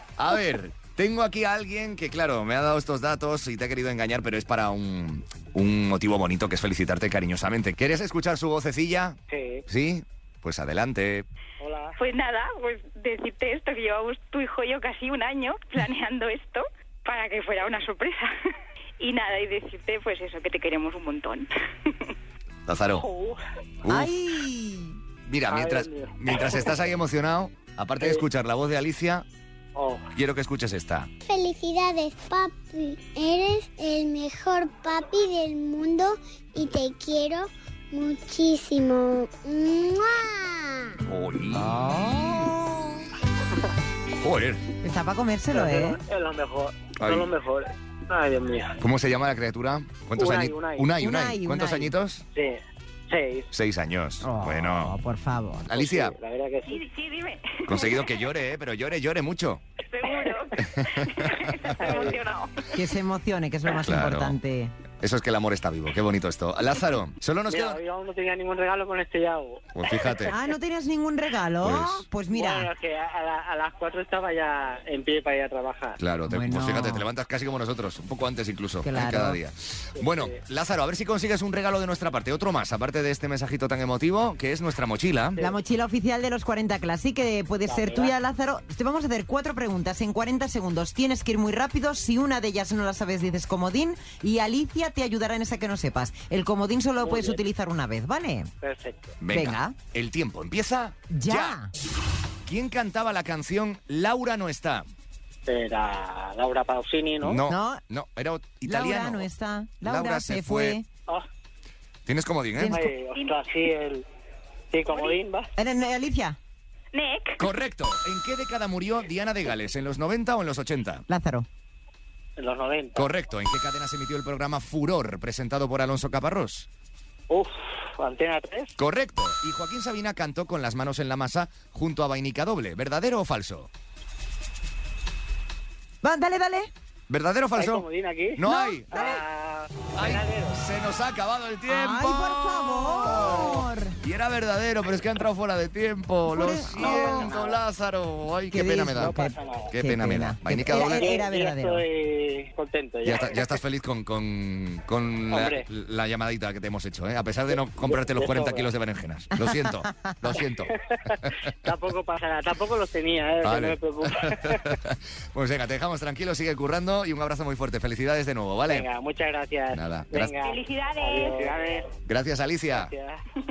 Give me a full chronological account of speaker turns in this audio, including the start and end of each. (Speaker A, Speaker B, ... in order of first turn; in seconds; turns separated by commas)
Speaker A: 0.2-11.3, Speaker B: 9.3-9.6, Speaker B: 11.6-11.9, Speaker C: 12.0-18.3, Speaker C: 19.0-21.5, Speaker A: 22.7-23.1, Speaker B: 23.0-23.4, Speaker A: 23.8-24.1, Speaker D: 23.9-25.0, Speaker A: 25.2-29.2, Speaker B: 25.5-26.6, Speaker B: 29.7-30.1, Speaker A: 30.1-31.1, Speaker E: 31.2-41.0, Speaker A: 41.0-42.5, Speaker D: 41.5-42.8, Speaker A: 44.2-44.6, Speaker D: 44.8-46.0, Speaker B: 45.5-48.8, Speaker A: 47.0-47.3, Speaker A: 48.8-52.2, Speaker B: 50.2-50.9, Speaker D: 51.0-51.9, Speaker B: 52.3-53.5, Speaker A: 53.5-55.0, Speaker D: 54.2-55.7, Speaker A: 55.7-56.1, Speaker B: 55.7-56.8, Speaker C: 56.7-58.1, Speaker A: 57.7-59.6, Speaker C: 59.9-62.5, Speaker B: 60.0-60.4, Speaker A: 60.6-61.7, Speaker B: 61.8-62.2, Speaker D: 62.7-64.7, Speaker A: 63.8-64.3, Speaker A: 65.0-67.8, Speaker B: 67.5-70.3, Speaker A: 69.7-70.3, Speaker D: 70.2-72.7, Speaker A: 71.6-72.0, Speaker B: 72.3-76.0, Speaker A: 76.0-85.4, Speaker D: 76.3-77.0, Speaker D: 78.8-79.4, Speaker B: 80.0-80.3, Speaker D: 85.4-98.5, Speaker B: 87.7-88.1, Speaker B: 97.0-97.4, Speaker B: 98.6-99.2, Speaker A: 99.2-101.5, Speaker D: 99.3-99.7, Speaker D: 101.1-101.7, Speaker A: 102.4-104.9, Speaker B: 105.5-107.4, Speaker A: 107.2-109.3, Speaker D: 107.5-107.8, Speaker D: 108.6-110.9, Speaker A: 109.8-110.8, Speaker A: 112.0-112.8, Speaker B: 112.5-114.0, Speaker B: 114.7-115.5, Speaker C: 114.9-115.2, Speaker D: 115.6-116.4, Speaker C: 116.9-117.4, Speaker A: 117.4-121.0, Speaker D: 121.1-121.5, Speaker B: 122.4-123.1, Speaker A: 122.9-126.7, Speaker B: 127.3-128.7, Speaker A: 128.8-133.7, Speaker D: 136.0-136.7, Speaker A: 137.1-139.0, Speaker B: 137.6-140.5, Speaker D: 138.4-139.2, Speaker A: 139.9-149.2, Speaker D: 141.7-144.0, Speaker D: 146.3-147.3, Speaker B: 146.8-147.6, Speaker D: 148.5-151.8, Speaker B: 149.0-149.7, Speaker A: 149.7-151.1, Speaker B: 150.7-153.4, Speaker A: 153.0-160.7, Speaker B: 155.3-155.6, Speaker B: 157.8-158.7, Speaker B: 160.7-164.7, Speaker A: 163.4-168.9, Speaker B: 168.7-171.9, Speaker A: 169.7-170.3, Speaker C: 170.4-171.5, Speaker A: 172.1-172.9, Speaker B: 172.7-173.2